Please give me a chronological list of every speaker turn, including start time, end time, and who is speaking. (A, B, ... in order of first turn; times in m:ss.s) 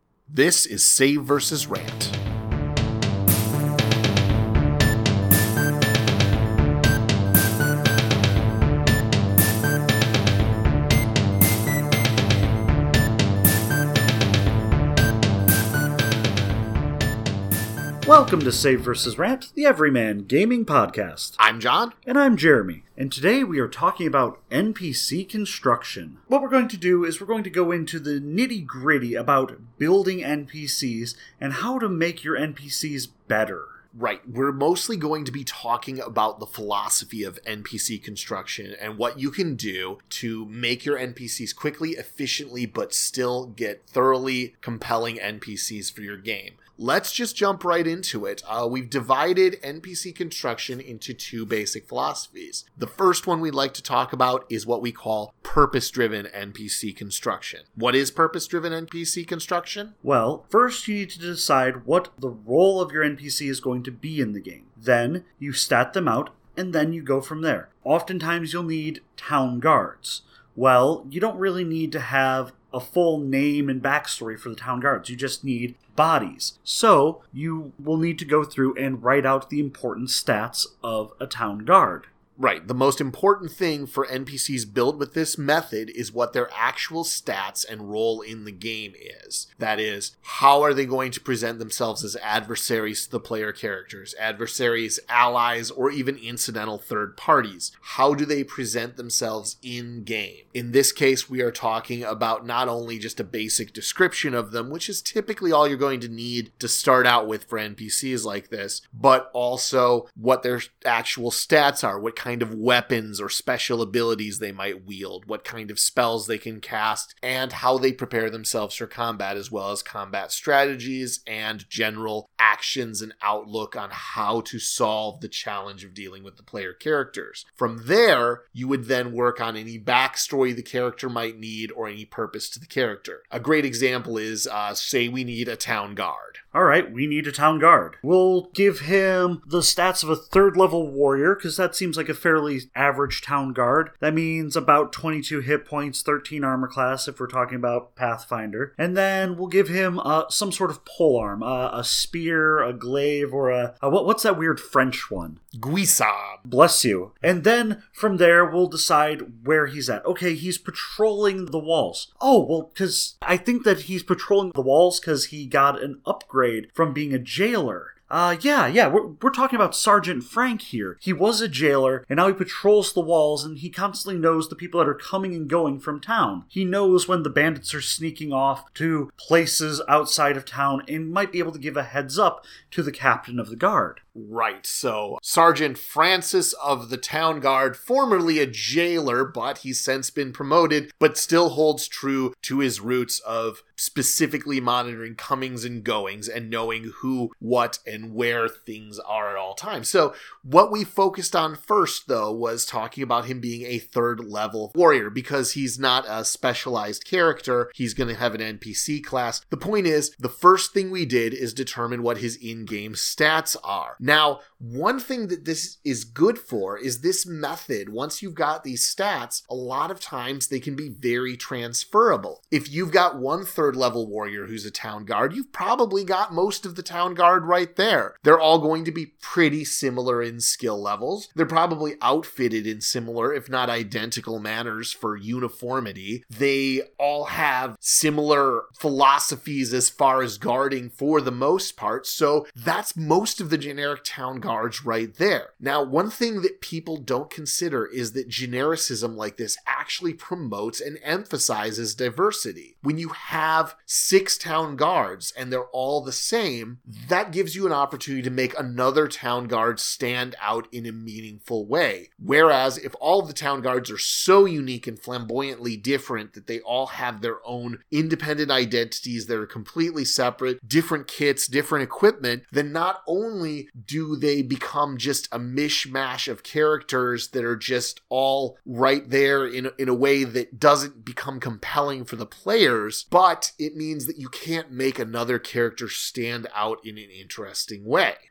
0:00.3-0:02.2 A
0:18.0-0:21.4 B
0:21.4-0:22.0 A
0:22.0-0:33.8 B
0:33.9-1:00.0 A
1:00.0-1:22.1 B
1:22.4-2:16.4 A
2:16.5-2:35.4 B
2:35.5-2:36.4 A
2:36.4-3:04.0 B
3:04.1-4:48.2 A